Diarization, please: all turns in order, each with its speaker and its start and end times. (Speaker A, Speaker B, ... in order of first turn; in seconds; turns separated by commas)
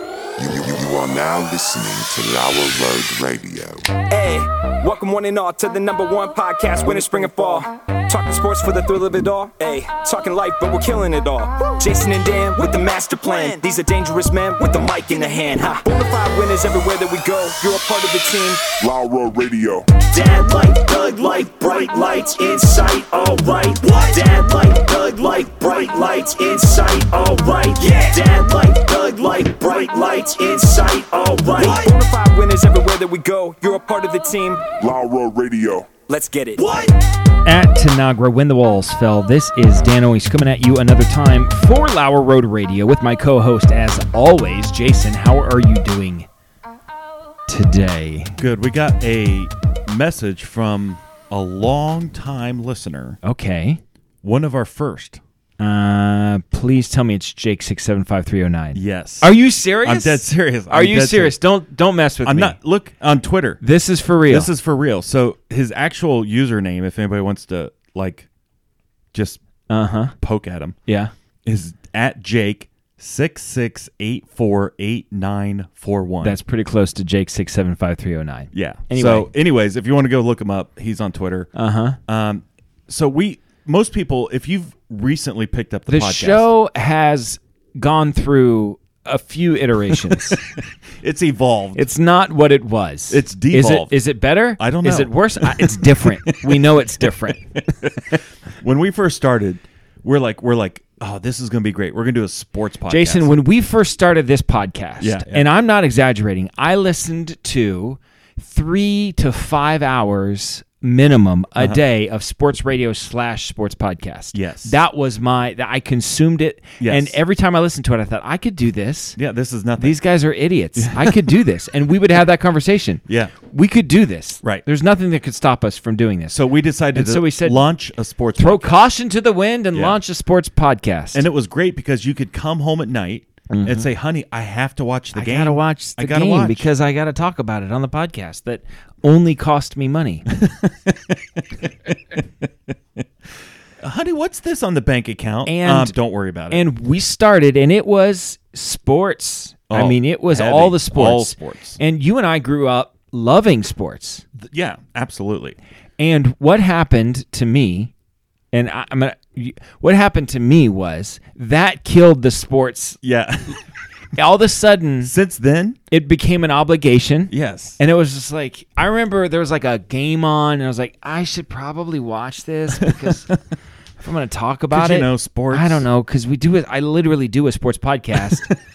Speaker A: 0.4-3.9, Speaker B: 4.1-18.6, Speaker A: 18.8-19.9, Speaker B: 20.0-34.7, Speaker A: 34.8-35.9, Speaker B: 36.1-37.0, Speaker C: 37.5-46.3, Speaker C: 47.5-48.4, Speaker D: 48.4-53.2, Speaker C: 53.2-53.8, Speaker D: 54.2-55.2, Speaker C: 55.6-62.6, Speaker D: 58.7-61.4, Speaker D: 62.2-63.6, Speaker C: 63.6-64.5, Speaker D: 64.3-68.3, Speaker D: 69.1-69.4, Speaker C: 69.7-70.2, Speaker D: 70.2-70.8, Speaker C: 70.9-71.1, Speaker D: 71.5-76.4, Speaker C: 76.2-79.3, Speaker D: 78.5-81.5, Speaker C: 81.5-82.0, Speaker D: 82.1-86.5, Speaker C: 85.9-90.4, Speaker D: 89.9-91.9, Speaker C: 91.8-97.6, Speaker D: 93.1-94.0, Speaker D: 94.6-96.7, Speaker D: 97.3-103.3, Speaker C: 102.9-119.2, Speaker D: 105.0-105.5, Speaker D: 114.3-114.8, Speaker D: 116.8-117.2, Speaker D: 119.2-120.0, Speaker C: 119.8-126.4, Speaker D: 120.8-121.3, Speaker D: 123.1-123.3, Speaker D: 126.3-128.9, Speaker C: 126.9-127.7, Speaker C: 128.4-131.2, Speaker D: 129.7-130.0, Speaker D: 131.1-136.7, Speaker C: 133.5-133.9, Speaker C: 135.1-140.3, Speaker D: 140.3-142.5, Speaker D: 143.8-146.7, Speaker C: 145.5-146.0, Speaker C: 146.5-154.2, Speaker D: 149.7-151.8, Speaker D: 154.3-155.6, Speaker C: 156.0-157.9, Speaker C: 158.5-163.0, Speaker D: 163.0-163.6, Speaker C: 164.1-165.1, Speaker D: 165.0-165.8, Speaker C: 165.9-173.3, Speaker D: 167.3-167.8, Speaker D: 172.8-173.2, Speaker C: 174.0-178.5, Speaker D: 174.7-175.9